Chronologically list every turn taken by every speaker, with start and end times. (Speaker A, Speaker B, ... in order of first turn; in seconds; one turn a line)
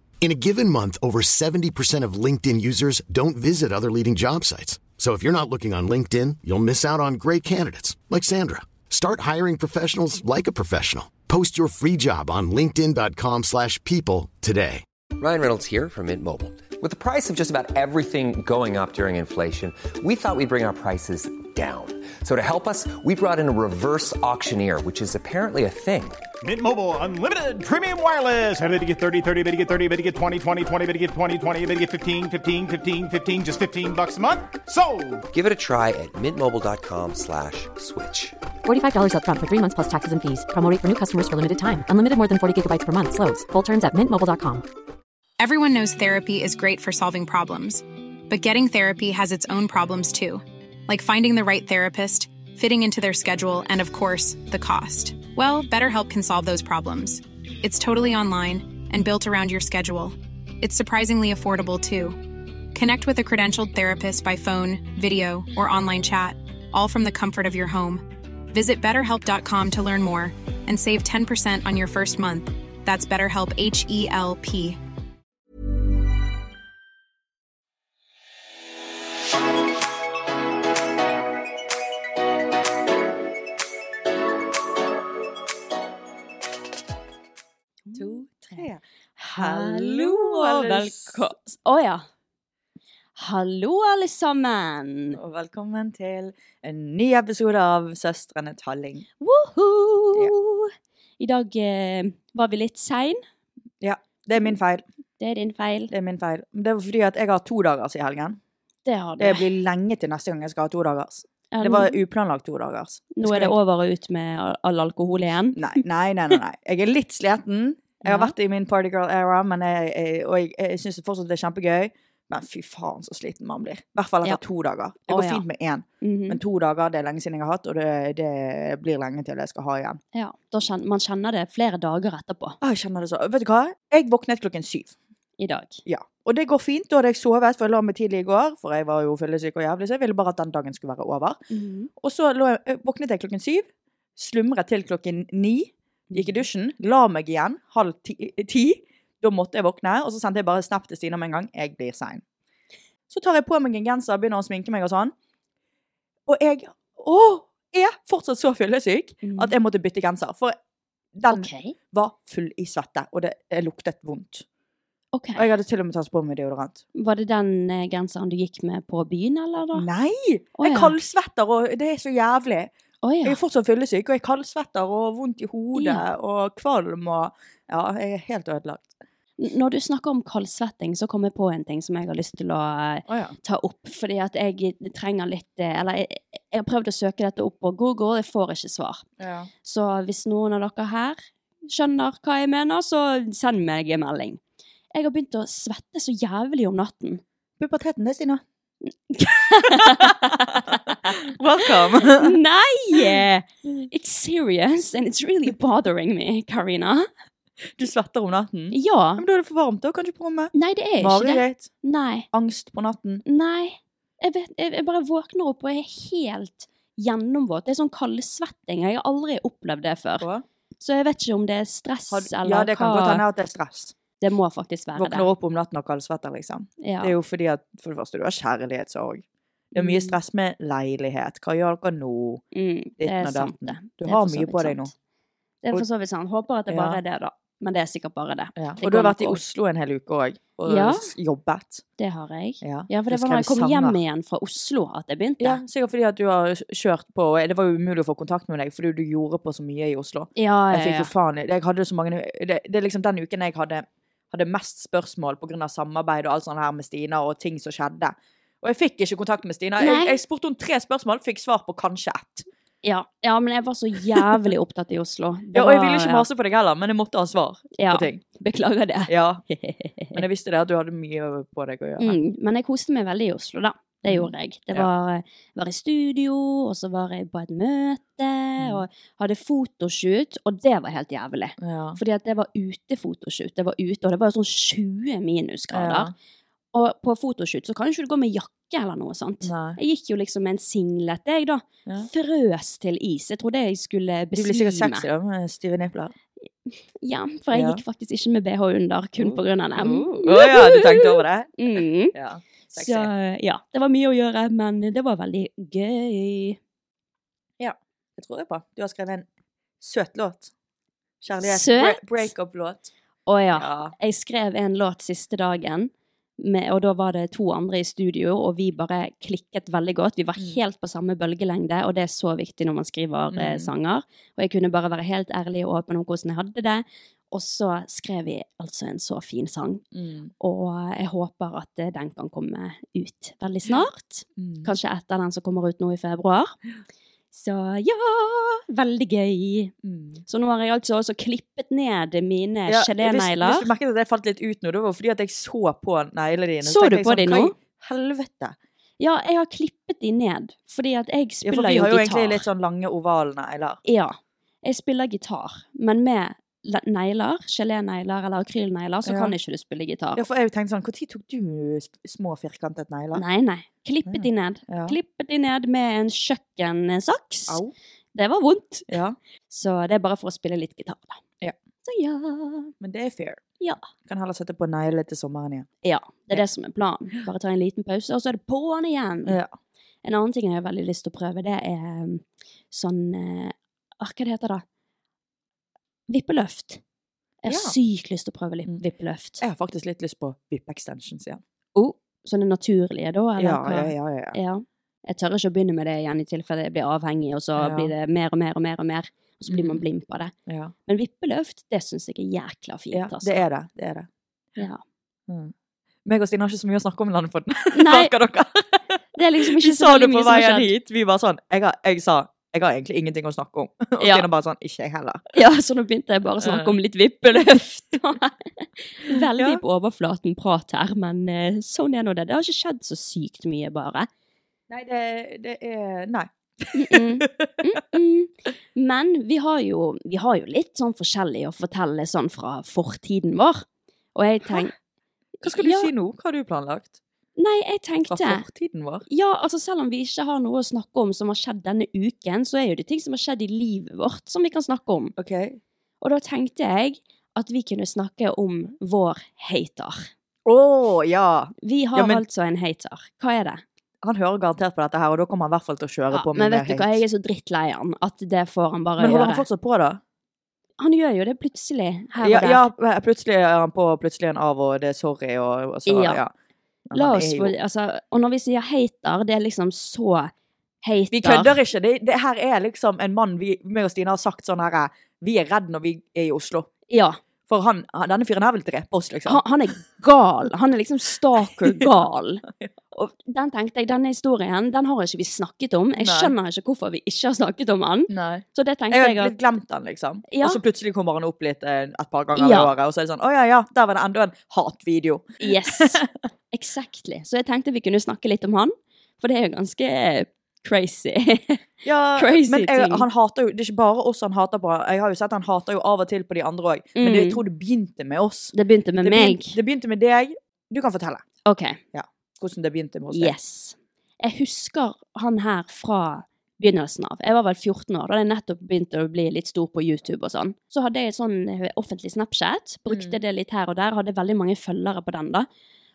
Speaker A: 0.2-14.8
Speaker B: 15.2-26.2
Speaker C: 26.4-35.2
Speaker B: 35.3-38.3
Speaker D: 38.6-44.6
Speaker E: 45.4-62.2
Speaker E: 62.7-74.8
Speaker F: 87.8-88.7
Speaker G: 87.9-88.8
Speaker F: 89.2-92.0
Speaker G: 89.3-91.3
Speaker F: 93.2-95.2
Speaker G: 95.1-99.1
Speaker F: 99.2-103.2
Speaker G: 103.8-104.8
Speaker F: 105.2-105.9
Speaker G: 105.9-108.4
Speaker F: 108.8-109.4
Speaker G: 109.2-113.5
Speaker F: 111.5-112.0
Speaker F: 113.2-115.6
Speaker G: 115.5-130.0
Speaker F: 118.0-118.3
Speaker F: 125.1-125.4
Speaker F: 126.0-126.4
Speaker F: 130.1-132.6
Speaker G: 132.6-134.9
Speaker F: 135.4-135.8
Speaker G: 135.8-141.4
Speaker F: 141.5-141.9
Speaker G: 142.0-143.7
Speaker G: 144.2-152.2
Speaker F: 146.1-146.4
Speaker G: 153.1-155.1
Speaker G: 156.3-160.6
Speaker F: 159.2-159.5
Speaker G: 161.1-164.4
Speaker F: 161.3-161.7
Speaker F: 165.1-165.4
Speaker G: 165.3-166.8
Speaker F: 166.9-169.8
Speaker G: 169.7-172.7
Speaker F: 170.6-170.9
Speaker F: 173.0-173.4
Speaker G: 173.2-178.9
Speaker F: 175.8-176.0
Speaker F: 179.4-189.0
Speaker G: 183.1-183.3
Speaker G: 189.2-189.5
Speaker F: 189.6-194.4
Speaker F: 194.9-197.2
Speaker G: 197.6-198.4
Speaker F: 199.1-201.2
Speaker G: 199.7-202.3
Speaker F: 202.0-207.1
Speaker G: 207.8-211.7
Speaker F: 208.7-209.2
Speaker F: 210.5-212.3
Speaker G: 212.3-213.2
Speaker F: 213.2-220.3
Speaker F: 220.8-223.2
Speaker G: 222.1-223.9
Speaker F: 224.2-225.3
Speaker G: 224.9-232.4
Speaker F: 226.8-227.1
Speaker F: 229.8-230.2
Speaker F: 232.5-234.9
Speaker G: 233.0-234.9
Speaker F: 235.6-239.4
Speaker G: 236.7-237.0
Speaker G: 238.6-241.8
Speaker F: 240.7-241.1
Speaker F: 242.0-245.6
Speaker G: 242.6-244.0
Speaker G: 245.4-262.4
Speaker F: 250.3-251.1
Speaker F: 259.8-260.2
Speaker F: 262.8-266.2
Speaker G: 265.5-268.2
Speaker F: 267.8-270.2
Speaker G: 269.1-269.4
Speaker G: 270.1-272.2
Speaker F: 272.0-286.1
Speaker G: 274.0-274.9
Speaker G: 278.6-278.8
Speaker G: 281.6-282.0
Speaker G: 285.7-286.1
Speaker F: 286.7-295.1
Speaker G: 289.4-289.8
Speaker G: 294.4-296.1
Speaker F: 296.7-302.1
Speaker G: 297.5-297.8
Speaker G: 299.2-301.5
Speaker G: 302.1-303.1
Speaker F: 302.7-306.6
Speaker G: 307.6-309.2
Speaker G: 309.8-310.5
Speaker G: 311.2-312.9
Speaker F: 311.4-312.3
Speaker F: 313.3-329.8
Speaker G: 313.5-313.9
Speaker G: 323.3-323.7
Speaker G: 329.9-330.3
Speaker F: 330.4-336.6
Speaker G: 334.4-334.7
Speaker F: 337.3-339.7
Speaker G: 339.8-340.2
Speaker F: 340.3-343.7
Speaker G: 342.7-348.5
Speaker F: 346.6-347.5
Speaker F: 349.0-352.4
Speaker G: 351.4-353.8
Speaker F: 353.8-360.2
Speaker G: 359.1-359.3
Speaker G: 360.1-363.2
Speaker F: 363.1-367.6
Speaker G: 364.1-364.9
Speaker G: 367.5-367.7
Speaker F: 368.1-368.9
Speaker G: 368.9-369.1
Speaker F: 369.5-371.2
Speaker F: 371.8-372.7
Speaker G: 372.8-373.4
Speaker F: 373.6-373.9
Speaker G: 374.1-375.7
Speaker F: 375.8-379.4
Speaker G: 379.2-379.5
Speaker F: 380.0-384.6
Speaker F: 386.1-386.8
Speaker F: 387.4-389.4
Speaker G: 387.5-387.8
Speaker G: 389.4-391.4
Speaker F: 391.7-400.3
Speaker G: 393.4-394.4
Speaker G: 397.6-397.9
Speaker G: 399.5-399.8
Speaker G: 400.5-400.7
Speaker F: 400.9-403.4
Speaker G: 402.9-404.1
Speaker F: 404.6-404.8
Speaker G: 405.3-405.5
Speaker G: 406.0-409.0
Speaker F: 407.7-408.1
Speaker F: 409.1-410.7
Speaker G: 409.5-415.2
Speaker F: 414.0-414.2
Speaker F: 415.3-424.1
Speaker G: 416.4-416.7
Speaker G: 424.7-427.5
Speaker F: 426.7-434.7
Speaker F: 435.4-435.9
Speaker G: 435.4-436.9
Speaker F: 437.4-438.4
Speaker G: 438.1-439.0
Speaker F: 439.1-445.1
Speaker G: 445.2-445.6
Speaker F: 446.0-450.1
Speaker G: 450.4-452.2
Speaker F: 451.6-453.6
Speaker G: 454.0-457.0
Speaker F: 456.1-459.4
Speaker G: 459.0-460.0
Speaker F: 460.8-462.6
Speaker G: 462.2-466.3
Speaker F: 465.9-466.2
Speaker G: 466.9-467.5
Speaker F: 466.9-470.3
Speaker F: 470.8-471.6
Speaker G: 471.1-476.7
Speaker F: 476.9-477.2
Speaker G: 477.5-479.4
Speaker F: 479.2-489.3
Speaker G: 486.0-486.3
Speaker G: 488.1-496.1
Speaker F: 490.3-490.6
Speaker F: 492.4-492.7
Speaker F: 495.4-496.0
Speaker F: 496.5-503.1
Speaker G: 501.8-511.2
Speaker F: 507.0-507.4
Speaker F: 508.5-509.6
Speaker F: 511.4-511.8
Speaker G: 511.9-513.3
Speaker F: 513.1-525.5
Speaker G: 522.9-523.2